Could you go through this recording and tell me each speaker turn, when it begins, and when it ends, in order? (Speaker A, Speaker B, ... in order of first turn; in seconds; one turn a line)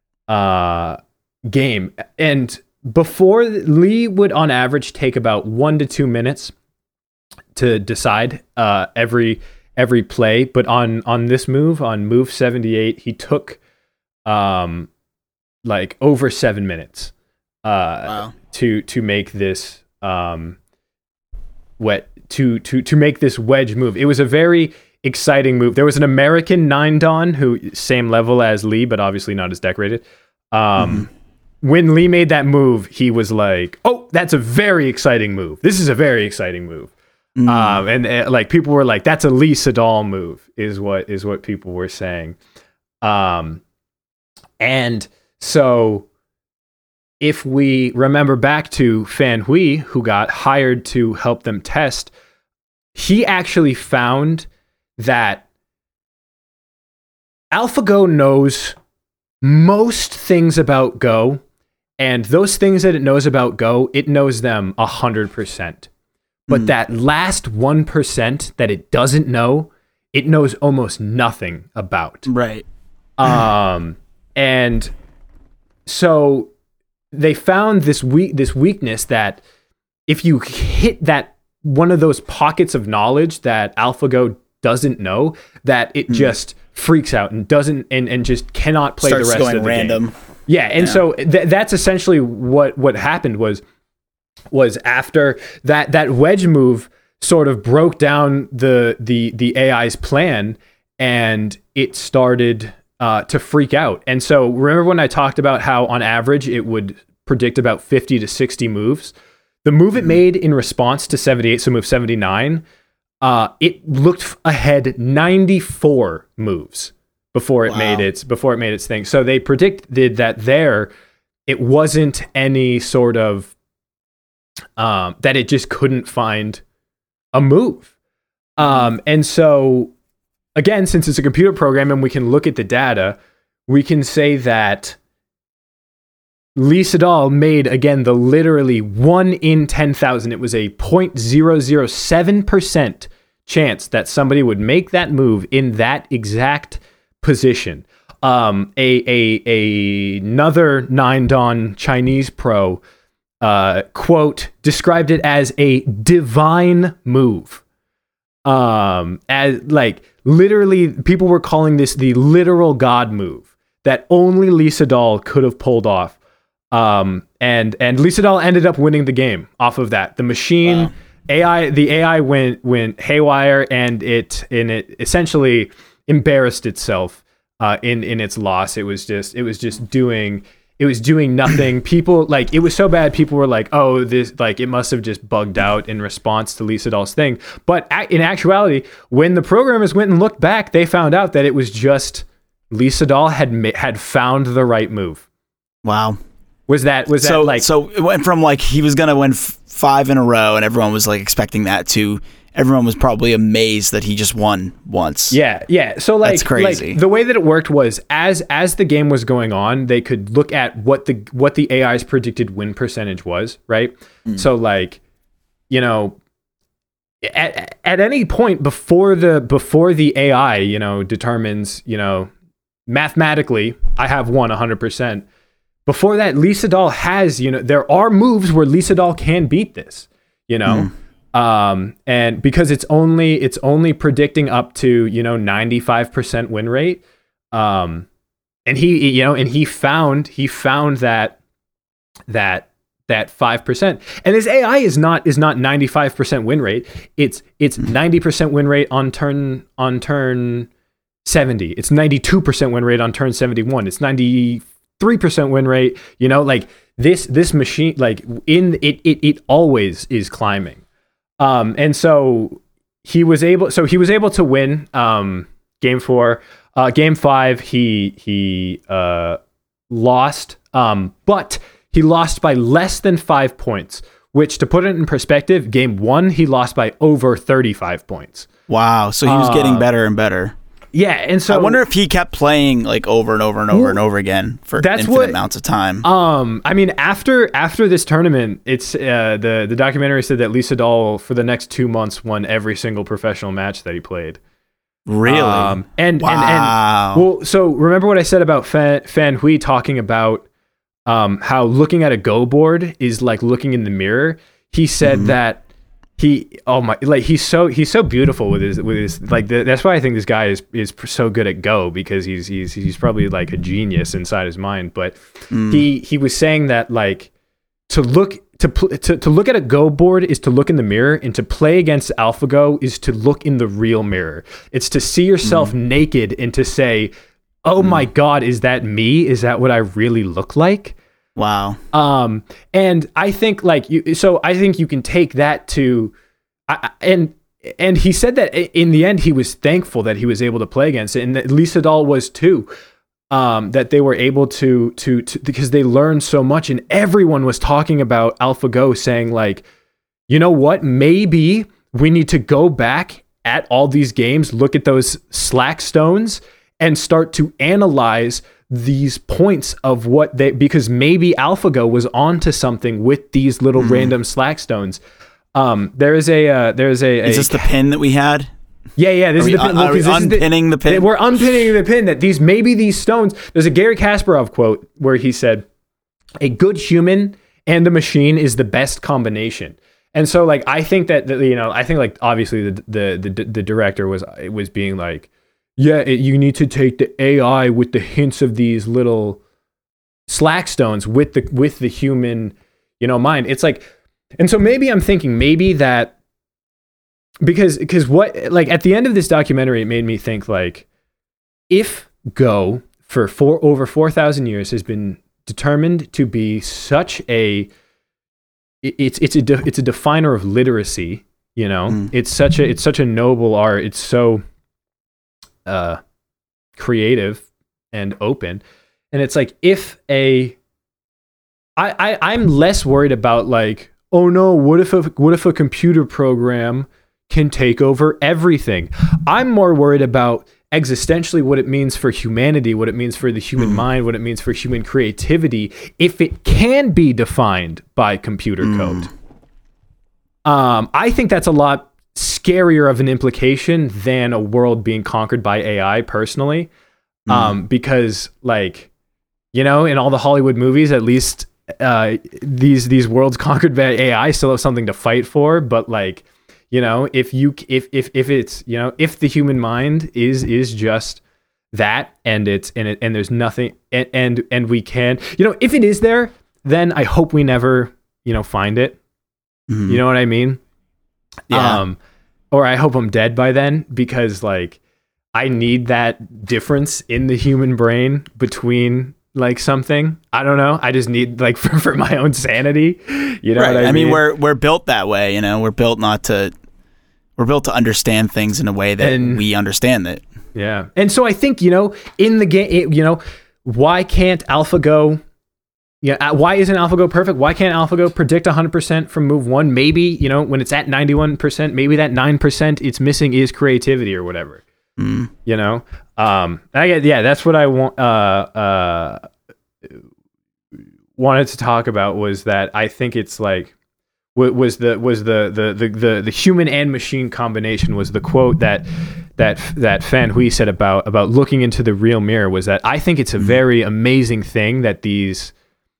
Speaker A: 0.3-6.5
Speaker A: 7.5-13.6
Speaker A: 14.3-14.9
Speaker A: 15.6-17.1
Speaker A: 17.6-20.6
Speaker B: 18.1-18.3
Speaker A: 21.8-31.1
Speaker B: 30.8-31.0
Speaker A: 31.6-36.9
Speaker B: 37.4-37.8
Speaker A: 37.5-42.4
Speaker A: 43.0-43.6
Speaker A: 44.6-46.1
Speaker A: 47.2-52.1
Speaker A: 53.0-55.5
Speaker A: 57.5-58.8
Speaker A: 59.4-61.4
Speaker A: 62.0-65.9
Speaker A: 66.5-72.3
Speaker B: 72.3-72.6
Speaker A: 73.2-74.9
Speaker A: 75.9-76.5
Speaker A: 77.1-79.4
Speaker A: 80.1-93.6
Speaker B: 89.0-90.1
Speaker A: 94.5-109.1
Speaker A: 109.6-112.6
Speaker A: 113.2-120.9
Speaker B: 117.7-118.0
Speaker A: 121.5-123.5
Speaker A: 124.8-126.6
Speaker A: 127.3-127.9
Speaker A: 128.6-129.9
Speaker A: 130.6-135.0
Speaker A: 136.6-152.8
Speaker A: 153.4-157.6
Speaker A: 158.5-166.2
Speaker A: 166.7-195.2
Speaker B: 195.8-196.2
Speaker A: 196.7-197.7
Speaker B: 197.2-205.4
Speaker A: 205.3-215.0
Speaker B: 206.2-207.0
Speaker A: 215.7-216.2
Speaker A: 217.2-222.3
Speaker A: 222.9-225.2
Speaker A: 225.9-237.0
Speaker B: 230.7-230.9
Speaker A: 237.5-238.1
Speaker A: 238.7-241.4
Speaker A: 242.3-250.7
Speaker A: 251.3-260.8
Speaker A: 261.4-269.4
Speaker A: 269.9-278.5
Speaker B: 278.7-280.6
Speaker A: 279.3-279.9
Speaker A: 280.9-281.8
Speaker B: 281.5-286.1
Speaker A: 283.7-284.0
Speaker A: 284.8-285.4
Speaker A: 286.0-294.4
Speaker B: 295.1-297.3
Speaker A: 295.3-300.5
Speaker A: 301.1-305.6
Speaker B: 305.0-305.4
Speaker A: 306.2-317.3
Speaker B: 315.5-315.9
Speaker A: 317.9-327.1
Speaker B: 325.5-325.7
Speaker A: 327.7-331.0
Speaker B: 331.4-331.8
Speaker A: 331.9-336.1
Speaker A: 336.7-342.7
Speaker A: 343.3-349.6
Speaker A: 350.3-365.0
Speaker B: 363.8-364.1
Speaker A: 365.6-367.7
Speaker B: 367.2-368.5
Speaker A: 369.0-375.6
Speaker B: 369.4-371.1
Speaker A: 376.4-389.4
Speaker A: 390.3-393.9
Speaker A: 394.4-396.1
Speaker A: 397.4-400.9
Speaker A: 401.7-407.7
Speaker A: 408.8-414.4
Speaker A: 415.6-416.0
Speaker A: 416.8-420.6
Speaker A: 421.8-439.1
Speaker B: 438.6-439.1
Speaker A: 440.5-446.7
Speaker B: 447.3-447.6
Speaker A: 447.3-448.9
Speaker A: 449.5-461.2
Speaker A: 461.7-469.0
Speaker B: 469.7-470.0
Speaker A: 469.9-470.6
Speaker A: 471.5-472.0
Speaker B: 471.5-471.8
Speaker A: 472.5-474.8
Speaker A: 475.4-484.2
Speaker B: 483.6-486.5
Speaker B: 487.4-490.2
Speaker A: 489.0-489.4
Speaker A: 490.6-495.2
Speaker A: 496.0-504.6
Speaker B: 505.0-505.3
Speaker A: 505.4-509.3
Speaker A: 511.2-513.7
Speaker A: 514.4-518.9
Speaker A: 519.4-525.5